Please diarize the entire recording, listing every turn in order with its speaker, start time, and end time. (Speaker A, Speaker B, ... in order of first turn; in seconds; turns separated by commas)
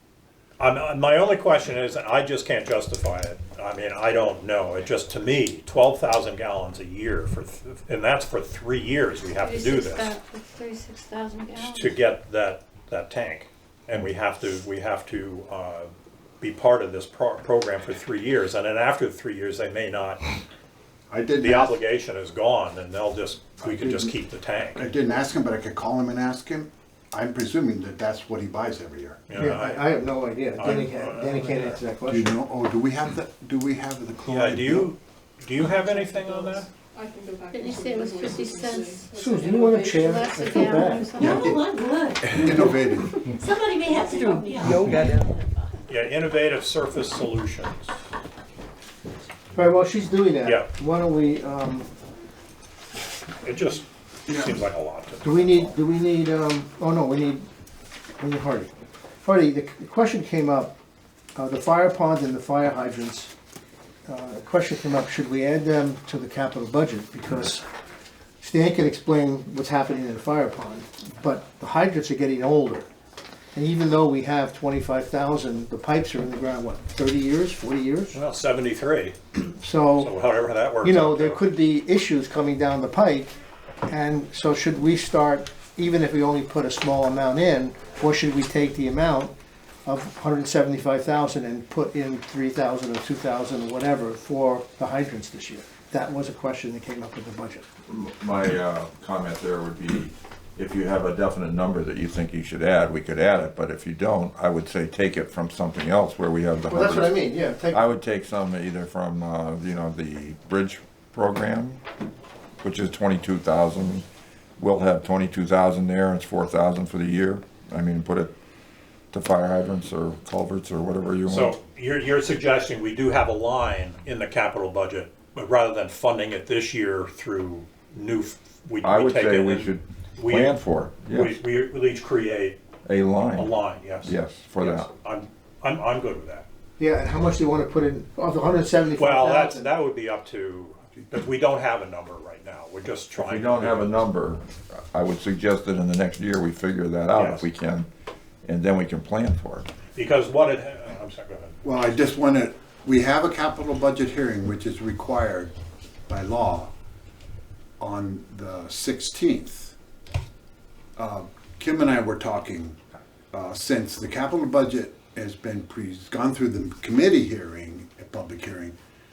Speaker A: 0.6-10.2, Speaker B: 9.3-12.0, Speaker A: 11.6-20.3, Speaker C: 21.1-21.8, Speaker A: 21.4-24.9, Speaker C: 23.6-24.1, Speaker C: 24.8-29.3, Speaker A: 29.3-31.8, Speaker D: 29.4-32.4, Speaker C: 32.0-34.9, Speaker A: 34.3-36.7, Speaker E: 35.8-41.2, Speaker B: 37.5-39.1, Speaker D: 39.1-41.2, Speaker B: 39.9-41.4, Speaker F: 41.2-42.7, Speaker C: 41.2-41.6, Speaker C: 42.3-43.2, Speaker F: 43.3-45.6, Speaker D: 44.0-45.2, Speaker A: 45.9-47.9, Speaker D: 49.5-51.9, Speaker A: 50.4-50.7, Speaker A: 53.4-55.8, Speaker C: 54.3-54.5, Speaker D: 55.2-57.5, Speaker D: 58.2-58.7, Speaker D: 59.2-60.8, Speaker D: 61.4-63.3, Speaker D: 64.1-67.6, Speaker D: 68.4-72.9, Speaker D: 73.5-78.2, Speaker A: 78.1-79.2, Speaker D: 79.6-80.1, Speaker A: 79.9-81.4, Speaker D: 80.8-83.3, Speaker D: 83.9-89.3, Speaker D: 89.9-97.7, Speaker G: 97.9-111.8, Speaker D: 106.7-107.8, Speaker G: 112.6-114.1, Speaker G: 114.6-118.3, Speaker G: 119.1-121.6, Speaker A: 121.3-132.6, Speaker G: 128.8-131.4, Speaker G: 132.8-134.9, Speaker A: 133.3-136.5, Speaker D: 136.8-139.7, Speaker A: 139.0-144.0, Speaker G: 143.2-147.9, Speaker A: 147.1-147.5, Speaker G: 148.4-149.7, Speaker A: 149.9-151.6, Speaker C: 151.6-155.5, Speaker C: 156.1-156.7, Speaker C: 157.8-159.8, Speaker C: 161.0-162.8, Speaker C: 163.3-168.8